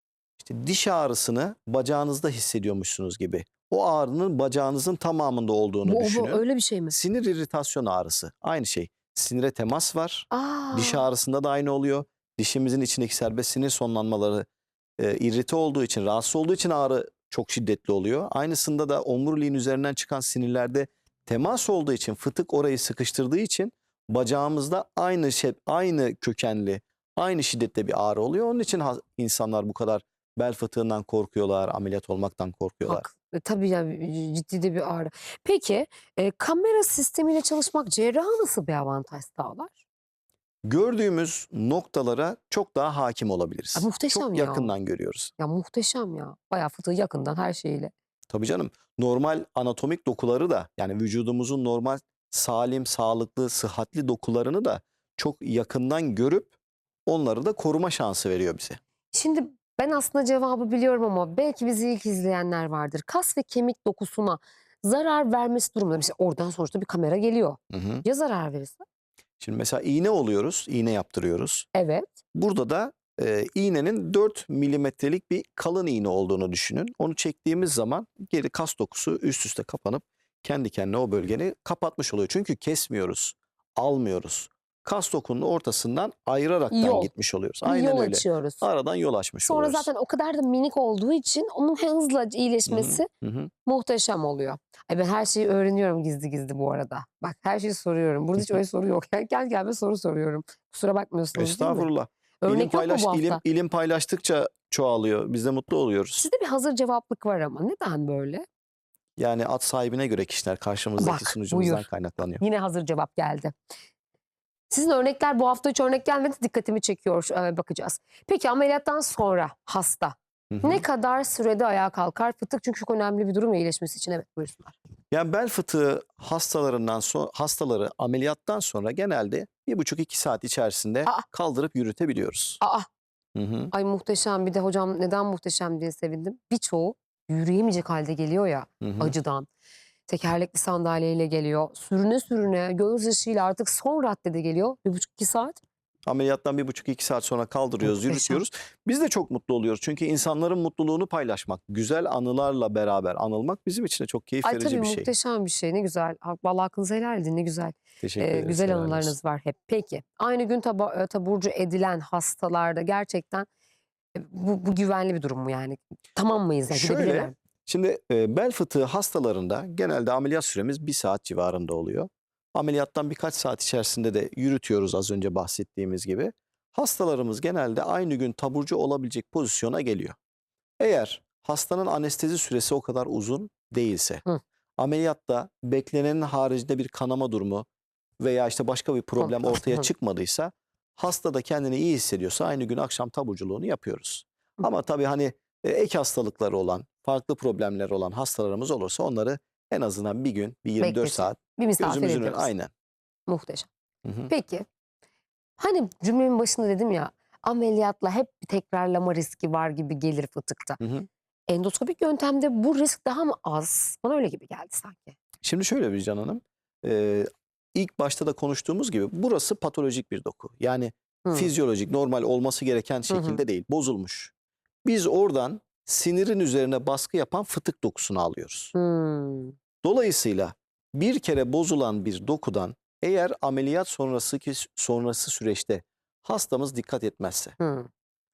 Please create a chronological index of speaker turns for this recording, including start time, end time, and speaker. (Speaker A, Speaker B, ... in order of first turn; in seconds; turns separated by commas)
Speaker A: 0.4-14.4, Speaker B: 5.8-7.0, Speaker B: 10.3-11.1, Speaker A: 15.0-33.0, Speaker B: 32.8-39.8, Speaker A: 40.6-45.3, Speaker B: 43.8-44.7, Speaker B: 45.4-47.9, Speaker A: 48.3-56.5, Speaker A: 57.0-58.8, Speaker B: 59.1-68.8, Speaker A: 67.7-68.0, Speaker A: 69.4-71.7, Speaker B: 71.7-72.1, Speaker A: 72.3-89.9, Speaker B: 86.7-87.1, Speaker B: 87.6-88.6, Speaker B: 89.4-93.1, Speaker A: 92.7-93.5, Speaker B: 93.6-101.9, Speaker A: 101.3-106.2, Speaker B: 102.4-103.4, Speaker B: 106.2-108.5, Speaker A: 109.2-112.4, Speaker B: 111.0-111.9, Speaker B: 112.4-113.5, Speaker B: 114.7-124.8, Speaker A: 120.5-120.8, Speaker A: 125.1-132.6, Speaker B: 132.6-132.9, Speaker A: 133.3-133.7, Speaker B: 133.7-139.5, Speaker A: 138.8-139.1, Speaker B: 140.1-145.6, Speaker A: 146.1-155.1, Speaker B: 147.8-148.4, Speaker B: 154.4-163.5, Speaker A: 158.0-159.1, Speaker B: 164.1-167.3, Speaker A: 166.7-180.2, Speaker A: 180.8-184.2, Speaker A: 184.8-187.7, Speaker A: 188.2-202.7, Speaker B: 189.2-189.9, Speaker B: 200.8-202.5, Speaker B: 203.3-203.7, Speaker A: 204.0-204.3, Speaker B: 204.3-204.7, Speaker B: 205.6-210.8, Speaker A: 210.8-211.1, Speaker B: 211.5-215.2, Speaker A: 215.4-224.3, Speaker B: 223.1-223.4, Speaker A: 224.8-228.7, Speaker B: 228.7-229.5, Speaker A: 229.8-237.6, Speaker B: 237.6-237.9